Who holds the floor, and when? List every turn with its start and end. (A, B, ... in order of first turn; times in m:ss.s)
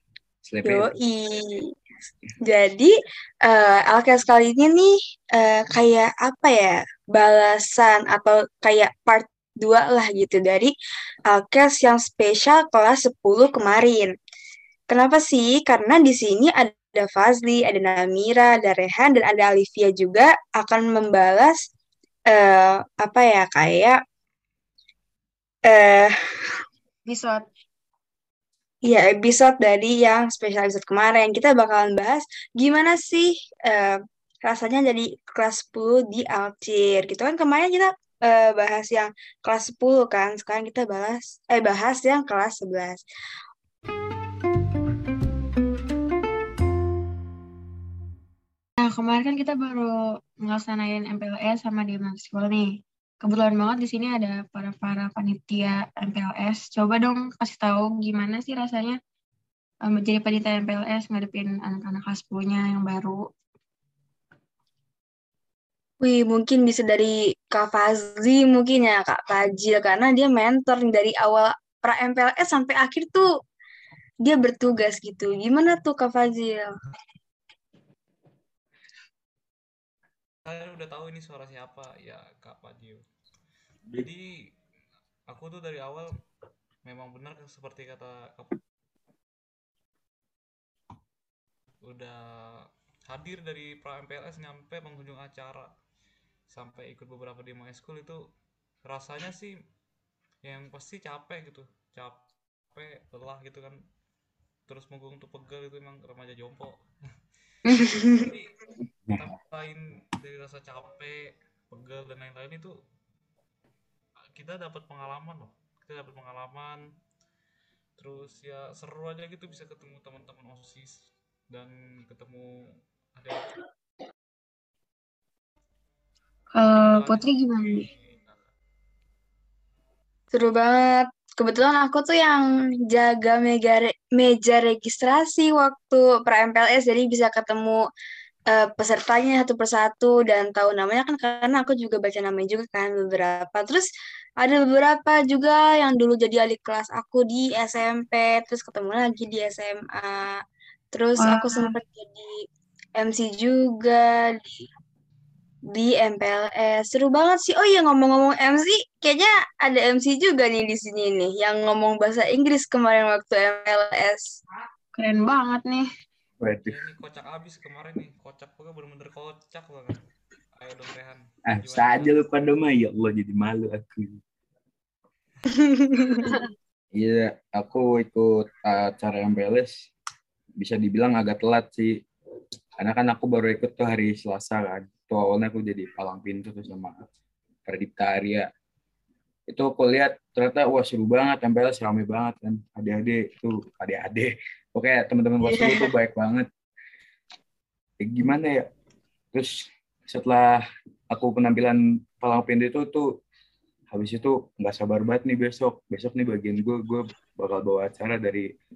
0:00.4-0:00.9 A
0:00.6-0:01.6 B
0:02.4-0:02.9 B
0:03.4-0:10.7 B
0:11.3-0:14.1 B
0:14.9-0:21.6 B
0:22.3-0:24.0 B
0:25.7-0:26.1 B
0:27.1-0:27.4 C
0:28.8-0:43.0 B
0:48.8-0:59.0 C
0:59.8-1:03.2 C
1:06.0-1:13.3 B
1:14.2-1:16.7 B
1:20.4-1:23.0 D
1:24.0-1:24.3 D
1:25.3-1:26.2 D
1:26.8-1:28.6 D
1:31.8-1:35.7 D
1:36.5-1:38.2 D
1:38.8-1:39.5 D
1:40.4-1:43.8 D
1:44.7-1:46.8 D
1:47.7-1:48.3 B
1:48.2-1:48.5 D
1:49.2-1:52.7 D
1:54.3-1:56.8 D
1:58.0-2:02.5 D
2:03.2-2:03.5 D
2:06.5-2:07.9 C
2:06.7-2:08.4 D
2:10.3-2:17.8 B
2:18.5-2:23.9 B
2:24.4-2:30.4 B
2:30.9-2:32.3 B
2:31.2-2:31.8 C
2:33.0-2:34.7 B
2:35.7-2:44.3 B
2:44.9-2:45.9 C
2:46.4-2:46.8 A
2:46.6-2:50.0 D
2:50.6-2:52.2 D
2:51.5-2:54.2 A
2:55.6-2:56.3 B
2:56.9-2:59.7 A
3:00.6-3:01.9 A
3:02.8-3:07.0 A
3:07.7-3:08.5 A
3:09.5-3:16.5 A
3:15.4-3:15.9 B
3:18.0-3:18.6 A
3:19.3-3:20.6 A
3:21.1-3:23.0 A
3:23.9-3:28.5 A